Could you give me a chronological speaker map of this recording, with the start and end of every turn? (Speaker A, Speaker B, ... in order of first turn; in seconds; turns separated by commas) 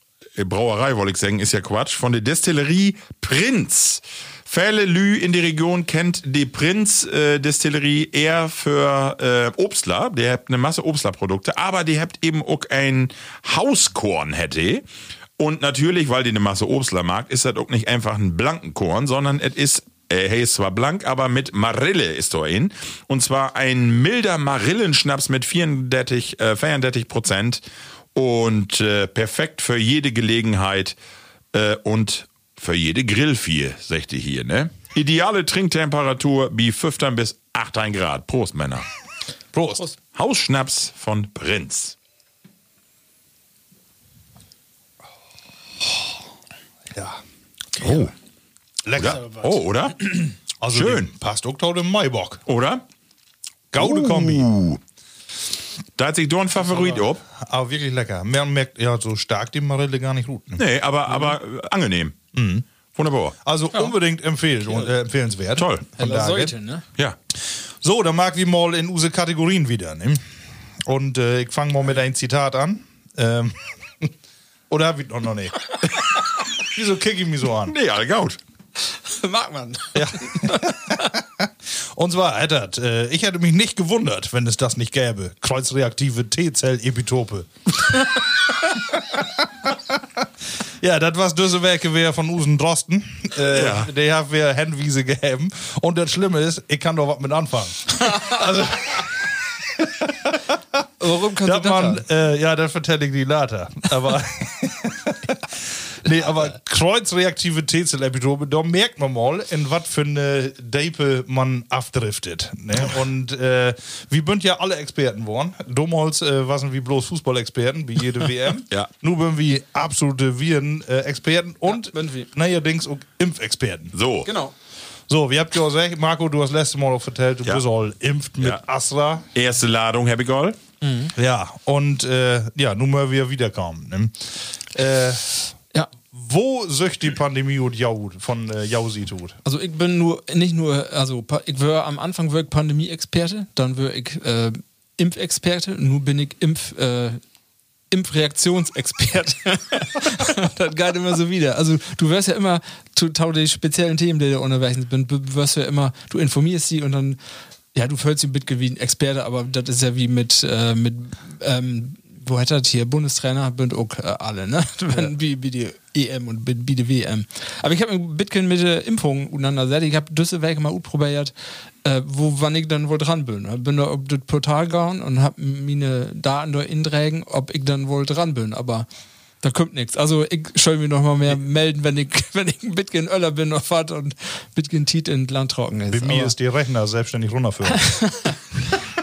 Speaker A: 0.4-14.8, Speaker A: 15.4-27.6, Speaker A: 28.1-30.9, Speaker A: 31.5-38.9, Speaker B: 39.5-39.8, Speaker A: 40.1-41.9, Speaker B: 46.9-47.2, Speaker B: 47.8-48.1, Speaker A: 47.8-48.1, Speaker B: 48.9-49.5, Speaker A: 48.9-51.0, Speaker B: 50.6-52.4, Speaker A: 52.5-52.8, Speaker B: 53.7-54.5, Speaker A: 53.8-54.8, Speaker A: 56.0-57.2, Speaker B: 56.7-60.6, Speaker A: 60.6-62.3, Speaker B: 62.3-62.6, Speaker A: 62.9-63.4, Speaker B: 63.4-66.5, Speaker A: 65.5-65.8, Speaker C: 66.0-66.8, Speaker B: 67.8-70.2, Speaker B: 70.8-74.1, Speaker B: 74.7-75.7, Speaker B: 76.6-77.7, Speaker A: 77.7-78.4, Speaker C: 78.9-81.1, Speaker B: 79.9-87.5, Speaker B: 88.9-90.2, Speaker B: 90.8-100.4, Speaker A: 93.5-93.9, Speaker C: 98.0-98.4, Speaker C: 101.0-102.0, Speaker B: 101.4-123.9, Speaker C: 121.7-122.3, Speaker A: 123.9-124.3, Speaker C: 124.2-124.5, Speaker B: 125.1-129.2, Speaker A: 129.3-130.6, Speaker C: 130.8-131.1, Speaker B: 131.2-135.5, Speaker B: 136.0-139.4, Speaker C: 139.4-147.2, Speaker C: 147.9-157.2, Speaker C: 157.7-171.3, Speaker C: 171.8-178.9, Speaker C: 179.4-186.3, Speaker B: 185.9-188.0, Speaker C: 187.8-188.4